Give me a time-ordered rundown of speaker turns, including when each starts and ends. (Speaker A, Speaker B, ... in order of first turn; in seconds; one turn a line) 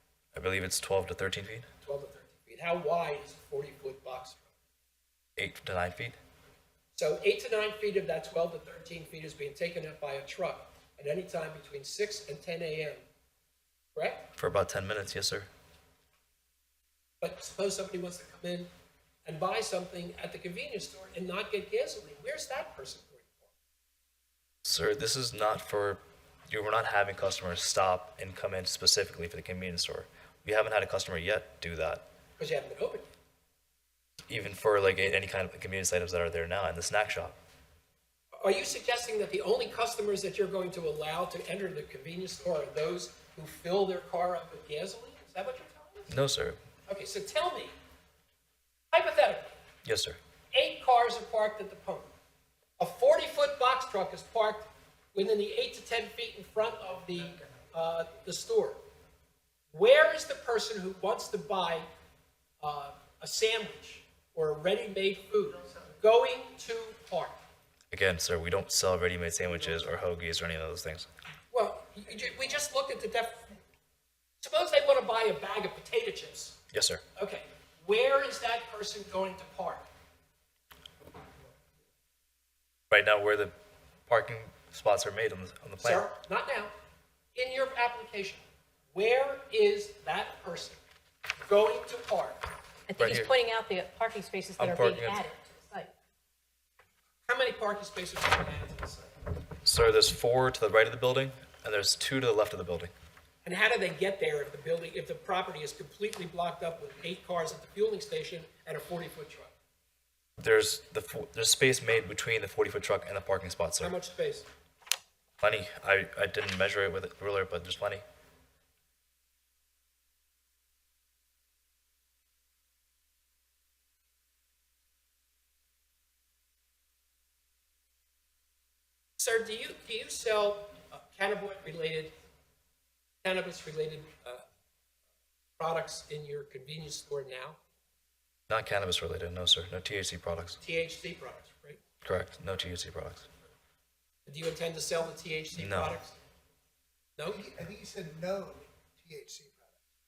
Speaker A: 0.3-1.7
Speaker B: 1.8-4.5
Speaker A: 5.4-6.2
Speaker B: 6.9-13.0
Speaker B: 13.9-14.3
Speaker A: 14.3-15.5
Speaker B: 17.2-18.7
Speaker B: 19.2-23.5
Speaker A: 24.6-32.0
Speaker B: 32.4-33.1
Speaker A: 34.3-37.4
Speaker B: 38.4-46.1
Speaker A: 46.1-46.6
Speaker B: 46.9-47.7
Speaker B: 48.9-49.5
Speaker A: 49.8-50.2
Speaker B: 50.5-52.1
Speaker B: 52.8-58.8
Speaker B: 59.7-61.9
Speaker B: 62.6-67.3
Speaker A: 67.9-71.1
Speaker B: 71.5-73.5
Speaker B: 74.4-76.5
Speaker A: 76.7-77.0
Speaker B: 77.2-79.8
Speaker A: 82.9-83.5
Speaker A: 84.1-86.1
Speaker B: 85.8-86.7
Speaker B: 87.3-88.4
Speaker B: 88.9-90.8
Speaker B: 91.4-92.4
Speaker C: 92.9-95.9
Speaker A: 93.0-93.3
Speaker A: 94.6-95.2
Speaker B: 97.3-99.1
Speaker A: 99.6-102.9
Speaker B: 103.4-109.5
Speaker A: 110.4-114.0
Speaker B: 113.8-114.5
Speaker A: 115.4-118.0
Speaker B: 129.2-132.1
Speaker B: 133.2-134.4
Speaker B: 135.6-137.6
Speaker A: 138.5-140.6
Speaker B: 140.6-141.8
Speaker A: 142.0-143.3
Speaker B: 144.2-146.2
Speaker A: 145.5-146.0
Speaker B: 147.2-147.5
Speaker D: 147.3-149.8